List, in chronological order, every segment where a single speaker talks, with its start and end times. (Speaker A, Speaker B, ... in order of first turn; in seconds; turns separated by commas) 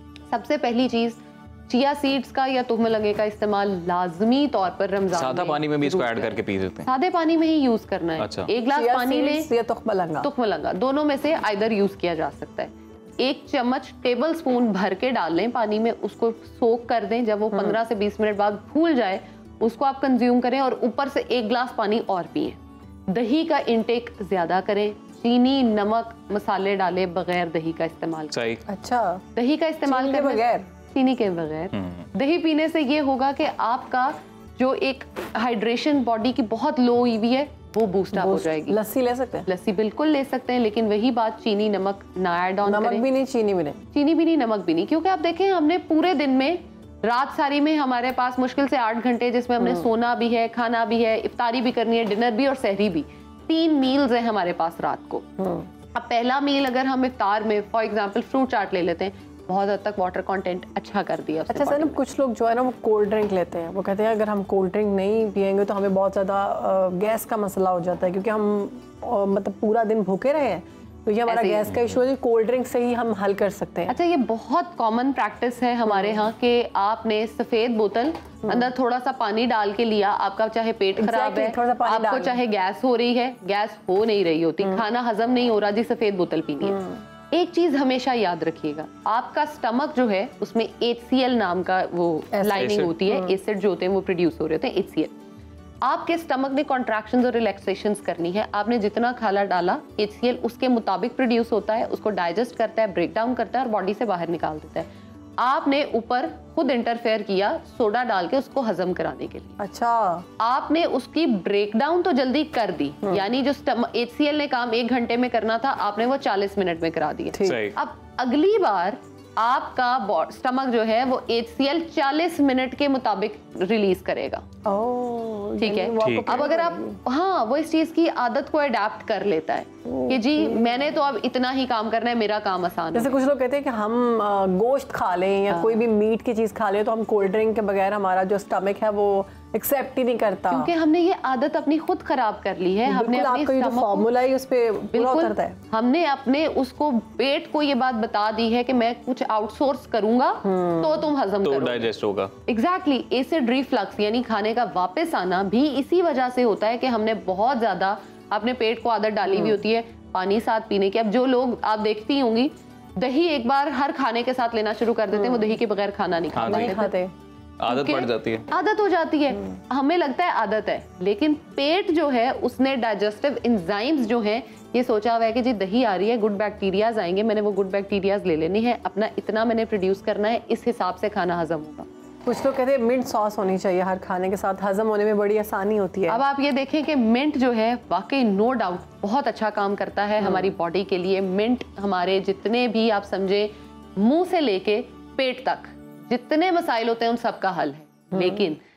Speaker A: 0.3-9.5, Speaker B: 5.1-6.9, Speaker B: 8.2-8.5, Speaker C: 8.7-10.3, Speaker A: 10.2-28.4, Speaker C: 17.5-17.8, Speaker B: 28.3-28.6, Speaker C: 28.7-29.2, Speaker A: 29.4-38.8, Speaker C: 29.9-30.7, Speaker B: 31.7-32.1, Speaker C: 38.1-39.5, Speaker A: 39.5-43.1, Speaker C: 42.6-43.8, Speaker A: 43.9-55.2, Speaker C: 49.6-49.9, Speaker C: 55.4-55.7, Speaker A: 55.9-62.0, Speaker C: 61.5-74.0, Speaker A: 71.3-71.8, Speaker A: 73.9-86.8, Speaker C: 75.8-76.2, Speaker C: 81.0-82.4, Speaker C: 86.6-87.0, Speaker A: 87.3-95.1, Speaker C: 92.3-93.4, Speaker B: 92.5-92.9, Speaker A: 95.8-104.9, Speaker A: 105.4-109.6, Speaker C: 109.6-110.3, Speaker A: 110.4-124.5, Speaker C: 117.3-117.6, Speaker B: 117.4-117.8, Speaker C: 124.7-127.0, Speaker A: 125.6-133.2, Speaker B: 126.0-126.5, Speaker C: 129.9-130.8, Speaker C: 132.9-140.7, Speaker A: 135.5-135.9, Speaker A: 140.5-144.1, Speaker C: 142.9-145.6, Speaker A: 144.9-151.9, Speaker C: 150.4-151.1, Speaker B: 151.4-152.3, Speaker A: 152.5-166.9, Speaker C: 159.3-159.6, Speaker C: 165.1-165.5, Speaker B: 166.3-166.8, Speaker C: 166.4-167.1, Speaker B: 167.6-168.5, Speaker A: 167.7-181.9, Speaker C: 182.2-186.2, Speaker A: 186.1-198.6, Speaker C: 190.2-190.5, Speaker C: 198.1-198.5